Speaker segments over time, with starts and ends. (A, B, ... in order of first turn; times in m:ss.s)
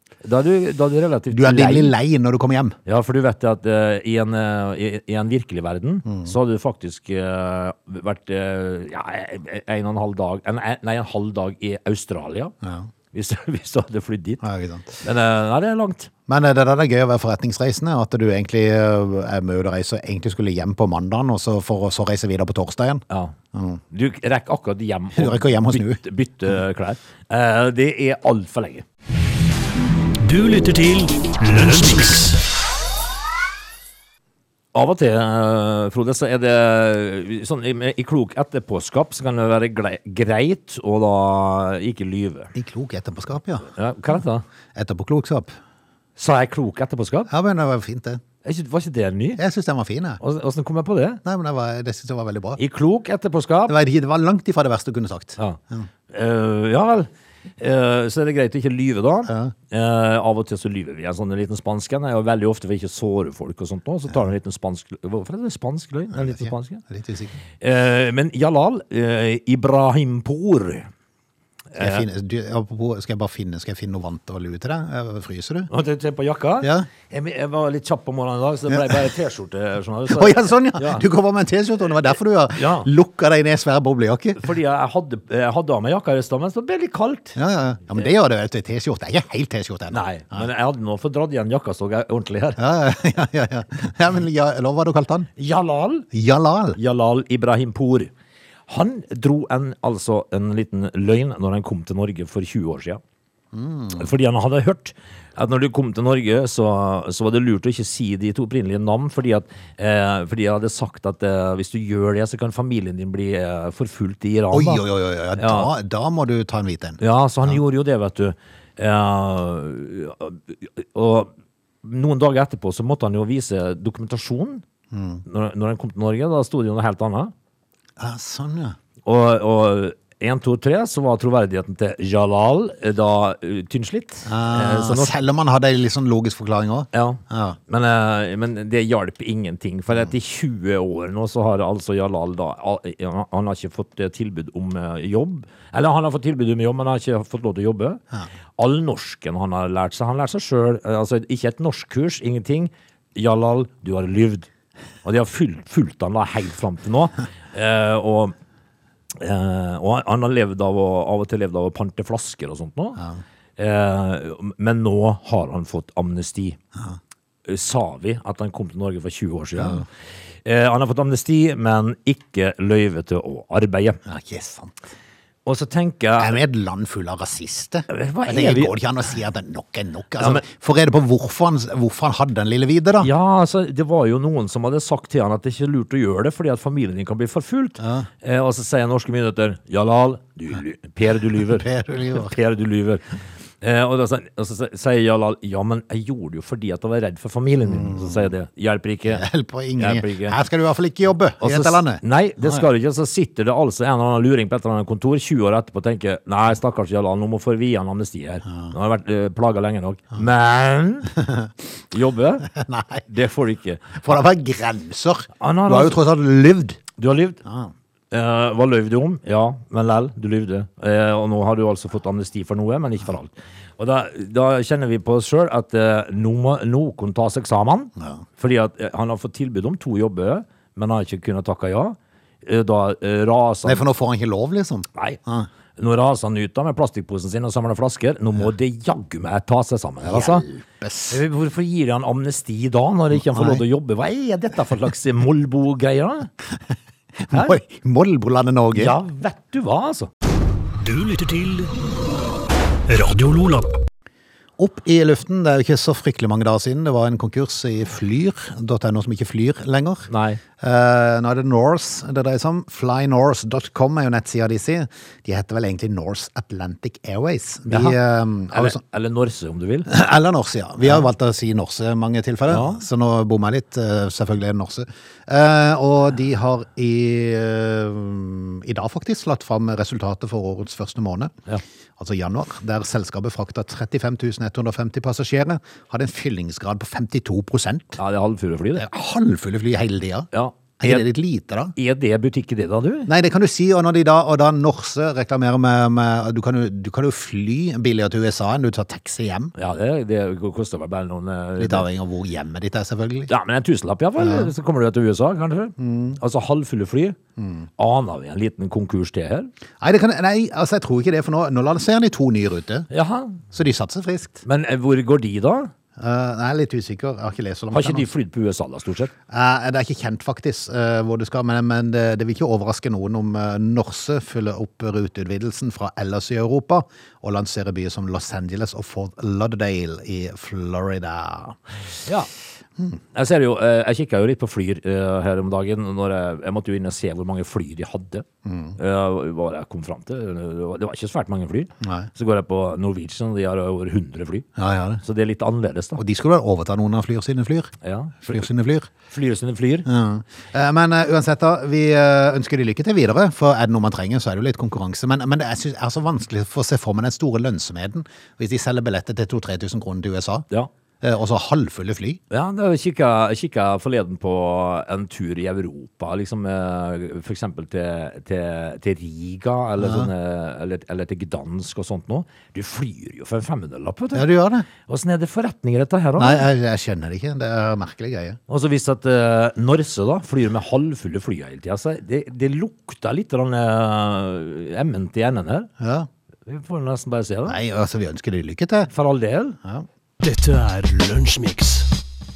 0:00.2-0:02.0 A
0:01.3-0:02.8 B
0:02.8-0:12.5 A
0:06.1-0:06.3 B
0:12.6-0:12.9 B
0:13.1-0:14.4 A
0:14.4-0:15.0 B
0:15.0-0:16.1 A
0:16.3-0:23.8 B
0:23.1-0:23.4 A
0:23.9-0:28.8 A
0:25.1-0:26.0 B
0:30.2-0:32.4 C
0:34.7-0:42.5 A
0:42.5-0:43.7 B
0:43.7-0:44.4 A
0:44.8-0:45.5 B
0:46.2-0:47.3 A
0:47.3-0:48.2 B
0:48.4-0:49.4 A
0:49.4-0:50.2 B
0:50.2-0:51.2 A
0:51.2-0:52.6 B
0:52.6-0:53.8 A
0:53.7-0:55.9 B
0:55.4-1:06.8 A
0:59.3-0:59.5 B
1:06.1-1:07.4 B
1:07.6-1:10.9 A
1:11.7-1:12.0 A
1:11.8-1:15.7 B
1:15.7-1:21.0 A
1:16.6-1:16.9 B
1:20.1-1:24.4 B
1:22.6-1:22.9 A
1:24.4-1:27.4 A
1:27.4-1:30.5 B
1:29.9-1:32.6 A
1:32.6-1:35.3 B
1:35.4-1:36.1 A
1:36.1-1:36.8 B
1:36.8-1:38.1 A
1:38.7-1:43.0 A
1:43.5-1:44.1 B
1:44.0-1:54.8 A
1:54.5-1:57.6 B
1:55.4-1:55.7 A
1:57.0-2:01.3 A
2:01.8-2:04.6 A
2:04.9-2:05.2 B
2:05.2-2:07.3 A
2:08.0-2:08.8 B
2:09.0-2:15.1 A
2:14.2-2:17.6 B
2:16.9-2:28.0 A
2:28.6-2:34.5 A
2:35.0-2:38.3 A
2:39.1-2:43.0 A
2:43.6-2:46.6 A
2:47.4-2:49.8 A
2:49.6-2:49.8 B
2:50.4-2:54.0 A
2:54.0-2:54.7 B
2:55.4-2:56.4 A
2:56.2-3:03.1 B
2:57.9-2:58.7 A
3:00.2-3:00.4 A
3:03.0-3:13.0 A
3:07.8-3:08.1 B
3:11.5-3:12.3 B
3:13.6-3:19.2 A
3:17.6-3:18.3 B
3:19.1-3:22.6 B
3:19.8-3:20.4 A
3:21.4-3:31.1 A
3:31.2-3:31.5 B
3:31.9-3:32.5 A
3:32.5-3:33.0 B
3:33.0-3:34.2 A
3:33.9-3:36.8 B
3:35.4-3:36.0 A
3:37.0-3:37.4 A
3:37.4-3:37.7 B
3:38.1-3:53.8 A
3:48.0-3:48.2 B
3:53.6-3:55.5 B
3:55.8-4:00.4 A
4:00.0-4:01.2 B
4:01.1-4:06.3 A
4:03.1-4:03.6 B
4:07.2-4:09.0 B
4:07.3-4:07.6 A
4:08.7-4:10.1 A
4:10.8-4:11.7 C
4:12.9-4:13.7 C
4:14.6-4:28.8 B
4:20.1-4:20.4 A
4:27.7-4:29.9 A
4:29.9-4:41.3 B
4:30.8-4:31.1 A
4:32.5-4:32.8 A
4:42.0-4:48.0 B
4:48.0-4:48.8 A
4:48.8-4:50.3 B
4:50.3-4:51.1 A
4:50.8-4:51.7 B
4:51.8-4:53.1 A
4:53.1-4:59.5 B
4:59.5-5:01.9 A
5:01.6-5:03.3 B
5:03.3-5:07.2 A
5:04.2-5:04.5 B
5:05.8-5:06.2 B
5:07.4-5:07.6 B
5:07.8-5:09.5 A
5:09.8-5:12.9 B
5:12.9-5:13.4 A
5:13.5-5:14.4 B
5:14.4-5:15.7 A
5:16.0-5:18.1 B
5:17.7-5:19.1 A
5:19.3-5:31.6 B
5:33.1-5:38.2 A
5:38.4-5:38.8 B
5:38.8-5:44.4 A
5:41.8-5:42.1 B
5:44.6-5:45.0 B
5:45.0-5:46.0 A
5:46.0-5:48.9 B
5:47.8-5:48.5 A
5:49.1-5:49.8 A
5:49.8-6:00.4 B
6:01.0-6:02.2 B
6:02.3-6:16.5 A
6:09.8-6:10.1 B
6:14.1-6:14.7 B
6:16.2-6:18.4 B
6:18.5-6:25.7 A
6:25.8-6:26.1 B
6:26.4-6:27.6 A
6:27.4-6:28.9 B
6:28.9-6:29.6 A
6:30.2-6:31.9 C